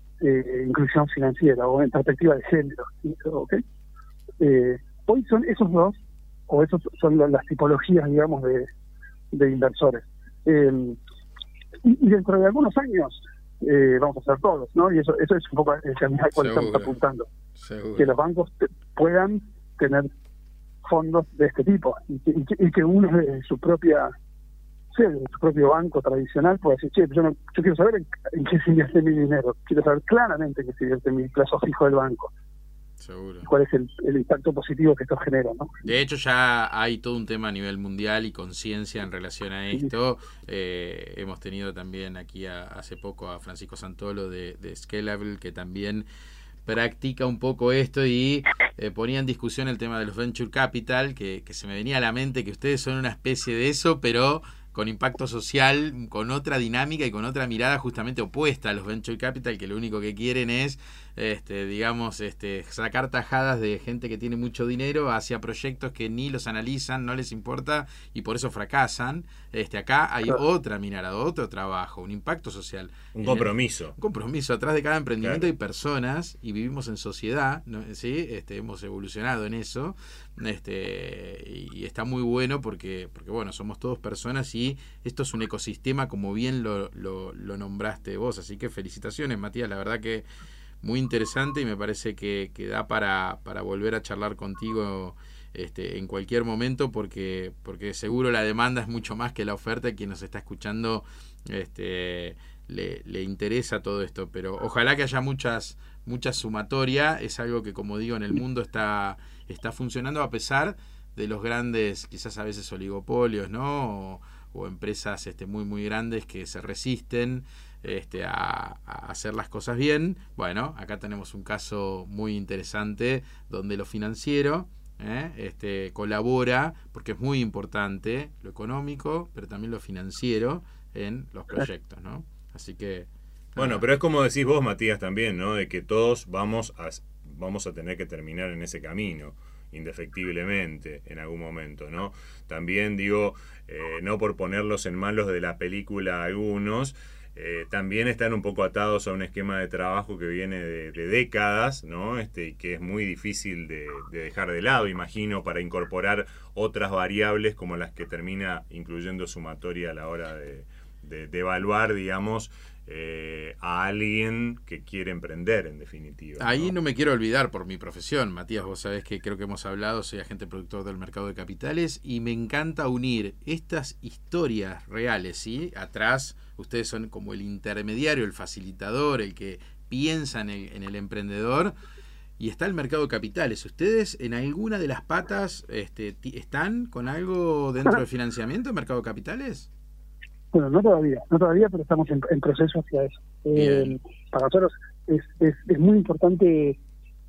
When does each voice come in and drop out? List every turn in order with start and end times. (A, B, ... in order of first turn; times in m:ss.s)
0:00.2-0:03.6 A
0:04.4-0:06.0 A
0:06.5-0:08.7 A
0:09.3-0:11.0 A
0:11.8-0:17.3 A
0:16.4-0:16.9 B
0:17.6-0:18.1 B
0:18.0-0:20.1 A
0:20.8-0:24.1 A
0:24.9-0:32.3 A
0:33.0-0:33.5 B
0:33.4-0:35.7 A
0:35.8-0:46.0 B
0:46.6-1:30.2 B
1:13.1-1:13.9 C
1:15.2-1:15.5 C
1:30.8-2:13.8 B
2:13.6-2:46.7 C
2:46.4-3:01.7 B
3:02.4-3:09.7 B
3:10.5-3:16.8 A
3:13.5-3:14.0 B